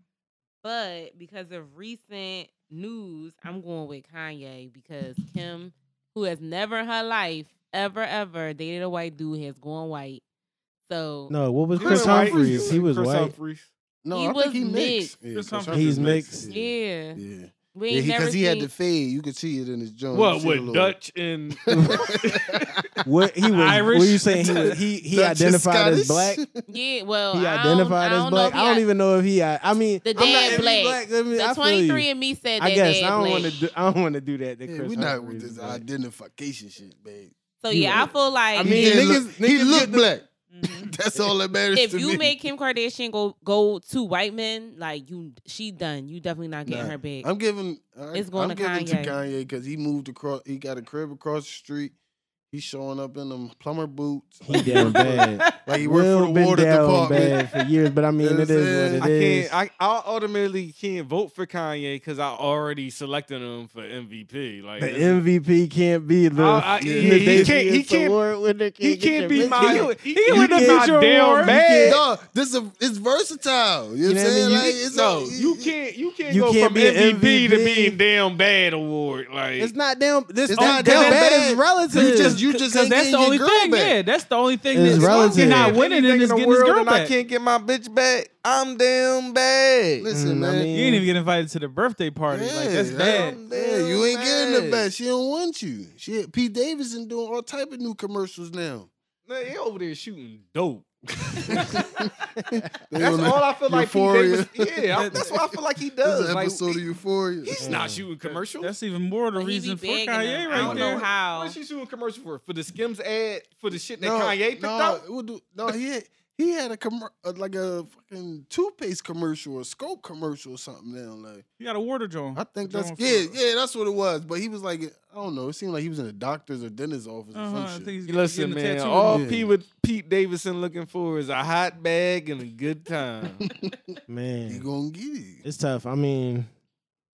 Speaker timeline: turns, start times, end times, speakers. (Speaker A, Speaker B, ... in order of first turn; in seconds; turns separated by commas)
Speaker A: 0.6-10.2, Speaker A: 10.8-11.3, Speaker B: 11.3-13.3, Speaker C: 11.8-13.7, Speaker D: 11.8-12.7, Speaker D: 14.0-21.0, Speaker A: 14.1-15.1, Speaker E: 15.3-16.3, Speaker B: 15.7-16.5, Speaker A: 16.5-17.2, Speaker A: 17.7-18.7, Speaker C: 20.1-22.8, Speaker D: 21.5-23.0, Speaker B: 21.7-22.1, Speaker B: 23.0-26.4, Speaker E: 23.5-24.8, Speaker D: 25.1-26.6, Speaker A: 26.7-28.8, Speaker B: 27.3-32.1, Speaker A: 30.0-33.5, Speaker D: 30.1-30.7, Speaker B: 32.6-35.8, Speaker D: 34.6-37.3, Speaker A: 37.6-39.1, Speaker B: 37.7-40.1, Speaker D: 37.9-42.3, Speaker E: 40.5-40.9, Speaker A: 41.7-47.3, Speaker D: 46.6-51.9, Speaker A: 48.1-49.1, Speaker D: 52.5-57.4, Speaker B: 54.4-59.5, Speaker C: 54.5-55.5, Speaker C: 57.1-57.4, Speaker D: 58.2-59.0, Speaker C: 59.0-65.2, Speaker B: 64.8-72.0, Speaker C: 66.3-68.2, Speaker D: 66.8-67.5, Speaker C: 68.8-72.0, Speaker E: 69.4-71.6, Speaker D: 71.8-75.7, Speaker B: 74.0-74.8, Speaker C: 74.5-79.7, Speaker B: 76.3-78.0, Speaker B: 79.6-82.4, Speaker D: 80.5-84.0, Speaker E: 80.5-81.3, Speaker E: 81.9-87.1, Speaker B: 84.7-85.8, Speaker D: 84.9-85.4, Speaker C: 85.0-90.1, Speaker D: 90.0-90.7, Speaker B: 90.1-91.1, Speaker E: 90.7-93.4, Speaker D: 92.3-98.9, Speaker C: 92.9-94.9, Speaker C: 99.2-100.9, Speaker D: 101.2-105.4, Speaker C: 101.4-101.8, Speaker B: 102.4-102.7, Speaker C: 102.9-106.8, Speaker E: 104.9-105.3, Speaker D: 106.0-107.9, Speaker C: 107.4-108.7, Speaker B: 107.6-108.1, Speaker E: 108.2-111.0, Speaker A: 109.3-111.5, Speaker C: 110.5-115.0, Speaker D: 114.0-121.4, Speaker E: 121.6-123.4, Speaker D: 122.3-127.9, Speaker E: 127.3-129.3, Speaker C: 128.1-133.4, Speaker D: 129.1-129.5, Speaker D: 133.4-133.9, Speaker B: 134.1-134.7, Speaker D: 134.5-135.4, Speaker B: 135.4-136.5